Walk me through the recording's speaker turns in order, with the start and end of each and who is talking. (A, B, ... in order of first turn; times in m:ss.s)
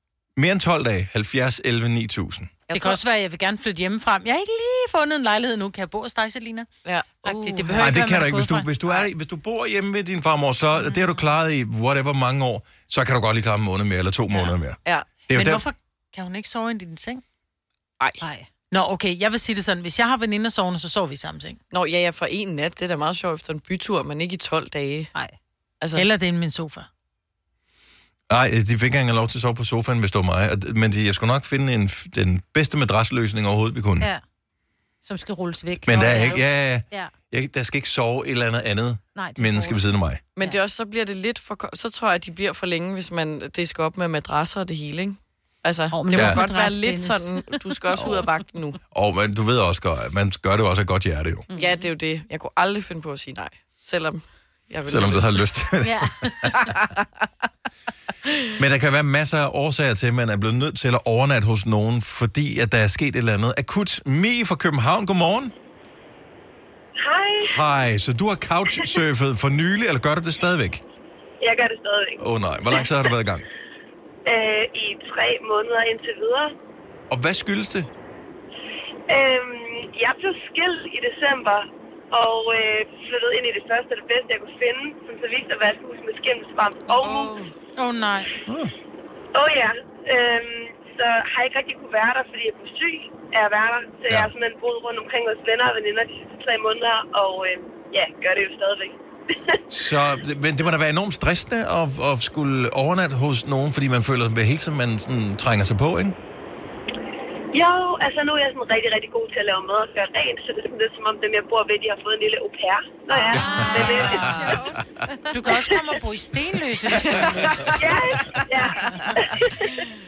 0:00.4-0:02.6 A
0:02.7-0:03.0 B
0:02.7-0:06.7 C
0:06.8-0:08.0 B
0:07.2-0:09.0 C
0:07.8-0:15.6 A
0:15.3-0:17.2 C
0:18.2-0:18.5 D
0:18.7-0:21.6 C
0:21.7-0:25.1 B
0:25.8-0:26.1 B
0:26.0-0:26.9 C
0:28.3-0:34.1 A
0:35.0-0:37.1 D
0:35.8-0:40.2 A
0:39.2-0:39.8 D
0:40.4-0:48.8 B
0:45.9-0:48.3 D
0:46.1-0:46.4 A
0:48.9-0:51.5 A
0:51.5-0:51.9 D
0:51.6-0:55.4 B
0:54.9-0:56.5 A
0:55.8-0:56.6 D
0:56.6-0:57.0 B
0:58.6-1:05.5 A
1:07.0-1:07.6 E
1:07.4-1:10.8 A
1:11.4-1:13.0 E
1:12.2-1:13.5 A
1:14.3-1:16.5 E
1:17.1-1:17.9 A
1:19.1-1:27.4 E
1:27.0-1:27.5 B
1:27.8-1:28.3 C
1:28.5-1:28.7 A
1:29.3-1:39.6 E
1:39.7-1:46.2 A
1:47.5-1:54.6 E
1:53.2-1:55.2 D
1:53.3-1:54.7 A
1:53.8-1:54.3 C
1:55.3-1:57.8 C
1:56.9-1:59.1 B
1:57.8-1:59.8 E